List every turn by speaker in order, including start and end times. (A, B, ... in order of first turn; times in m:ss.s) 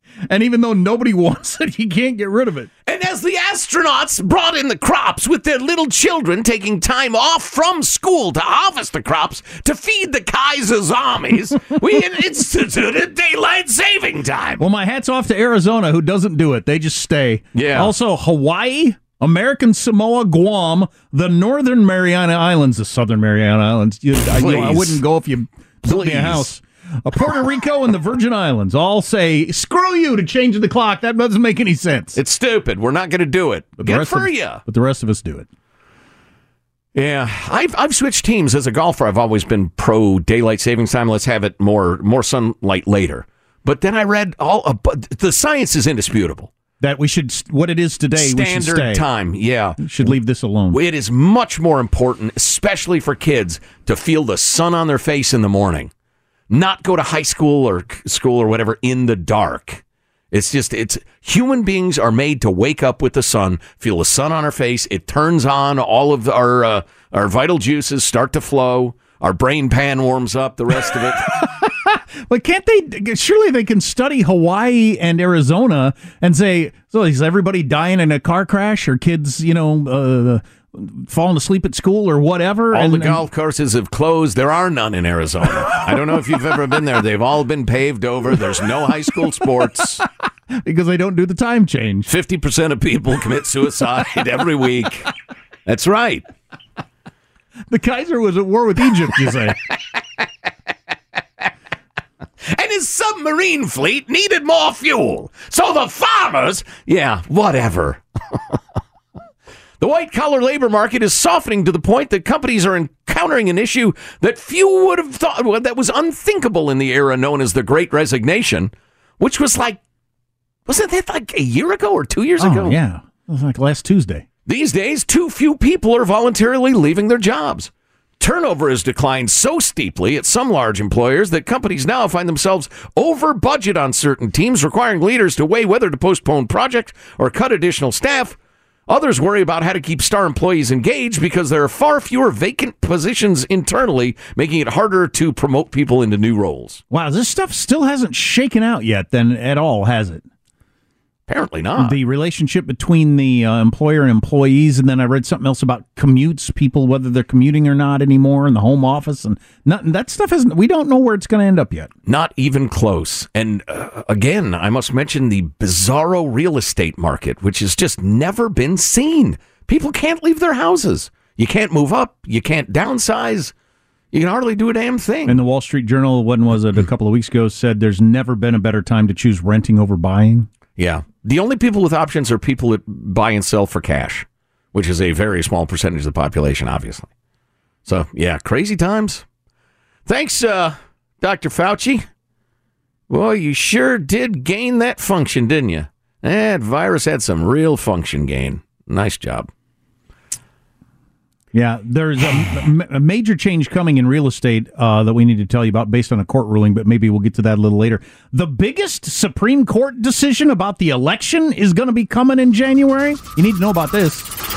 0:00.3-0:02.7 A
0:02.9-0:14.6 B
0:14.6-0:32.2 A
0:17.6-0:17.9 B
0:24.3-0:25.0 B
0:25.8-0:26.5 B
0:32.2-0:34.6 B
0:33.8-0:35.5 A
0:36.9-0:46.5 B
0:46.8-0:49.0 A
0:48.2-0:50.1 B
0:49.8-0:50.8 A
0:50.7-0:55.9 B
0:56.5-1:11.5 B
1:10.9-1:23.2 A
1:22.7-1:30.0 B
1:25.8-1:26.2 A
1:29.1-1:32.1 A
1:32.1-1:35.1 B
1:35.7-1:36.3 B
1:37.7-1:39.6 A
1:42.4-1:48.6 B
1:49.8-1:59.8 B
2:00.7-2:02.8 B
2:02.4-2:04.3 A
2:04.5-2:18.4 B
2:18.9-2:26.8 B
2:26.9-2:30.2 A
2:31.3-2:32.0 B
2:31.8-2:41.9 A
2:42.1-2:53.5 B
2:54.1-2:55.4 B
2:55.3-3:00.5 A
3:00.8-3:07.1 B
3:07.9-3:09.2 B
3:10.1-3:12.1 B
3:13.1-3:19.5 B
3:21.5-3:34.3 A